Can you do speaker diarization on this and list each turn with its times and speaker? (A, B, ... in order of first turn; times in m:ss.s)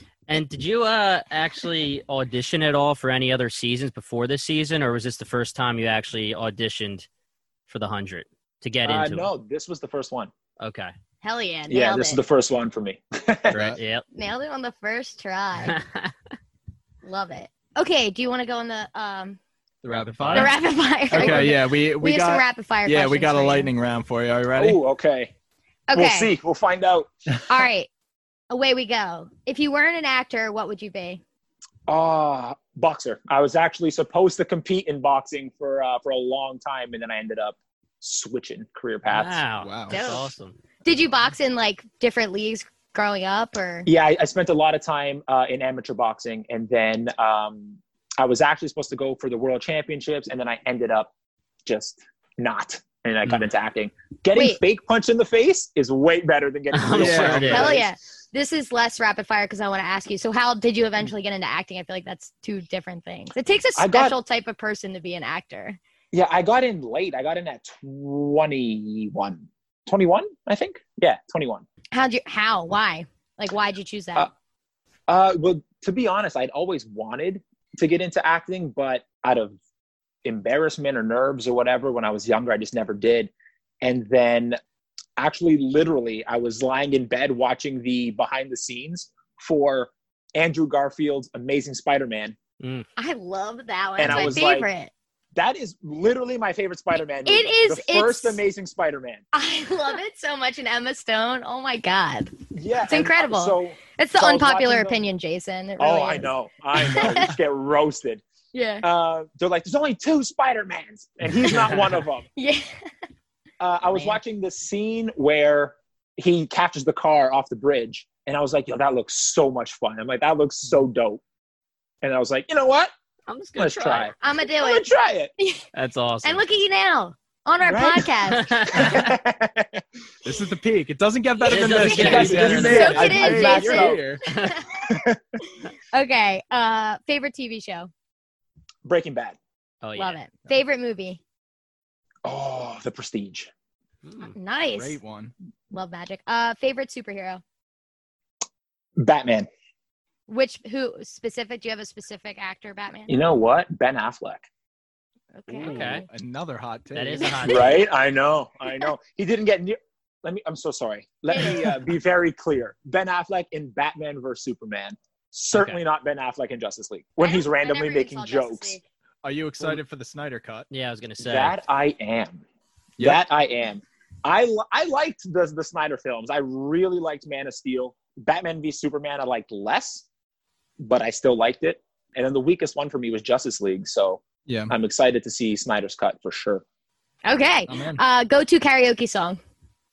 0:00.3-0:07.1 A
0:07.7-0:09.3 A
0:08.8-0:10.3 B
0:10.6-0:10.9 A
0:11.2-0:12.2 C
0:11.7-0:13.6 B
0:13.5-0:14.0 A
0:13.5-0:13.8 D
0:14.1-0:15.8 C
0:15.7-0:16.1 A
0:17.0-0:19.4 C
0:19.8-0:20.6 D
0:19.9-0:20.5 A
0:20.3-0:23.7 C
0:21.1-0:24.8 D
0:21.2-0:21.5 A
0:24.6-0:25.3 B
0:25.9-0:26.3 C
0:25.9-0:27.6 B
0:27.5-0:27.9 C
0:28.5-0:31.2 C
0:31.9-0:39.4 B
0:39.1-0:40.6 A
0:39.6-0:40.0 D
0:39.9-0:40.3 C
0:40.8-0:43.9 C
0:43.9-0:51.1 B
0:51.7-0:57.9 B
0:54.3-0:54.6 C
0:56.7-0:57.8 A
0:56.9-0:57.8 D
0:57.5-1:05.8 C
1:03.8-1:04.2 B
1:06.1-1:11.7 B
1:11.9-1:14.3 C
1:15.1-1:19.6 B
1:20.2-1:23.3 B
1:23.8-1:24.6 B
1:25.2-1:32.4 B
1:32.6-1:32.9 A
1:33.0-1:34.9 C
1:34.0-1:34.7 B
1:35.3-1:39.2 B
1:37.2-1:38.4 C
1:39.3-1:47.3 C
1:42.5-1:45.0 B
1:45.8-1:48.2 B
1:48.5-1:48.9 C
1:48.8-1:52.3 B
1:52.4-1:52.7 C
1:53.6-2:01.2 B
1:53.9-1:54.2 C
2:02.0-2:02.9 B
2:03.3-2:04.1 A
2:03.6-2:05.3 B
2:04.2-2:05.6 C
2:05.7-2:06.4 A
2:06.2-2:09.1 C
2:07.7-2:08.1 B
2:08.3-2:09.1 A
2:08.7-2:09.8 B
2:10.2-2:14.2 D
2:11.4-2:13.3 A
2:11.7-2:15.0 C
2:11.8-2:14.1 B
2:14.3-2:14.6 A
2:14.9-2:15.2 B
2:15.6-2:17.9 C
2:18.8-2:19.4 B
2:19.8-2:20.2 A
2:20.0-2:21.2 C
2:22.2-2:23.5 B
2:24.0-2:24.4 A
2:24.4-2:25.0 C
2:24.7-2:25.3 D
2:25.7-2:27.4 C
2:29.0-2:29.5 B
2:30.3-2:33.1 C
2:33.1-2:34.5 B
2:35.4-2:36.0 C
2:35.5-2:37.4 D
2:35.6-2:36.0 A
2:36.9-2:37.9 A
2:37.2-2:37.8 C
2:37.4-2:48.8 B
2:41.3-2:41.8 C
2:47.2-2:48.8 C
2:49.2-2:50.7 D
2:50.7-2:51.6 A
2:51.2-2:52.4 B
2:53.0-3:00.0 B
3:00.8-3:06.6 B
3:04.5-3:04.7 D
3:07.3-3:09.4 C
3:07.7-3:08.0 D